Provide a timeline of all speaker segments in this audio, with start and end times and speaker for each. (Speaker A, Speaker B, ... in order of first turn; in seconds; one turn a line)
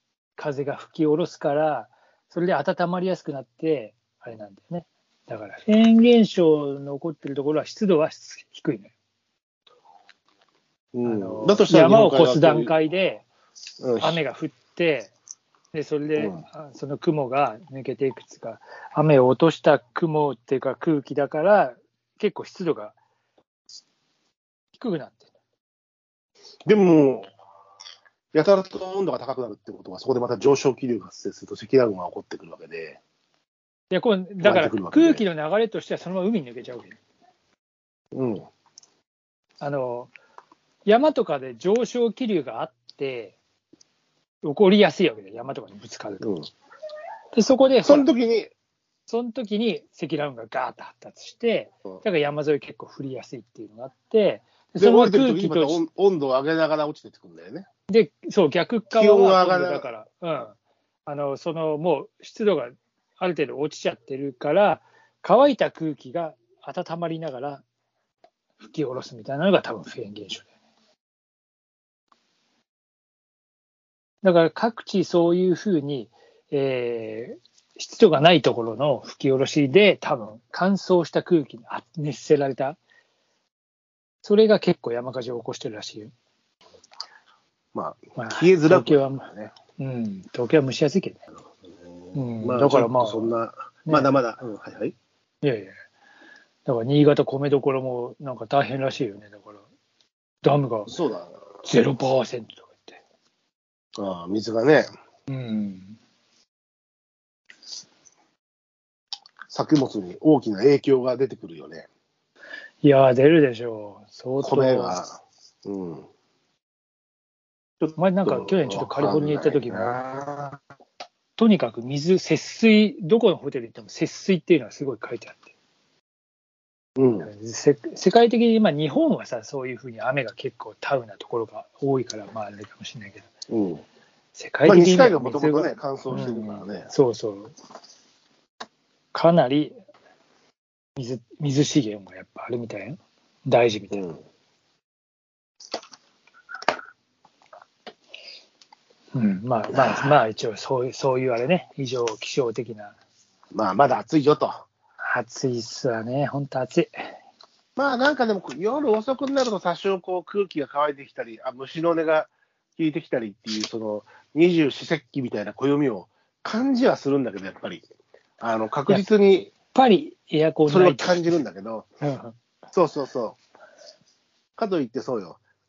Speaker A: 0.4-8.9
Speaker B: 10.9-12.7
Speaker A: 11.0-13.2
Speaker B: 13.8-14.2
Speaker A: 14.0-15.1
Speaker A: 15.7-22.9
Speaker B: 16.1-16.4
Speaker A: 24.7-25.3
Speaker B: 26.6-27.3
Speaker B: 28.3-33.0
Speaker A: 33.9-37.0
Speaker B: 34.4-35.2
Speaker B: 38.1-38.5
Speaker A: 39.6-40.1
Speaker A: 40.9-43.4
Speaker A: 44.4-46.3
Speaker B: 46.2-46.5
Speaker A: 47.3-48.1
Speaker B: 47.8-48.5
Speaker A: 49.1-55.8
Speaker B: 54.8-57.7
Speaker A: 57.9-60.5
Speaker B: 58.9-59.9
Speaker A: 61.1-67.6
Speaker A: 68.6-70.5
Speaker A: 74.2-82.8
Speaker A: 84.2-86.1
Speaker B: 87.7-89.5
Speaker A: 88.2-91.2
Speaker B: 92.0-94.9
Speaker A: 92.1-93.3
Speaker A: 93.8-94.1
Speaker A: 95.4-95.8
Speaker A: 96.7-99.6
Speaker A: 100.4-101.0
Speaker B: 100.9-101.3
Speaker A: 101.6-103.0
Speaker B: 104.0-104.9
Speaker A: 105.3-106.0
Speaker B: 109.5-111.9
Speaker A: 112.8-115.0
Speaker B: 114.4-116.1
Speaker B: 117.8-120.6
Speaker A: 118.0-120.0
Speaker A: 121.4-125.5
Speaker B: 127.0-127.3
Speaker A: 127.2-133.2
Speaker B: 133.5-133.8
Speaker A: 134.3-137.5
Speaker B: 134.7-136.9
Speaker A: 139.1-139.8
Speaker A: 140.9-144.0
Speaker B: 143.9-144.2
Speaker A: 149.1-152.9
Speaker B: 149.7-150.1
Speaker B: 153.5-154.7
Speaker A: 155.0-157.1
Speaker B: 157.8-167.8
Speaker B: 168.4-169.5
Speaker A: 169.7-171.4
Speaker B: 170.7-171.9
Speaker A: 172.0-172.3
Speaker B: 172.7-173.4
Speaker B: 174.6-175.4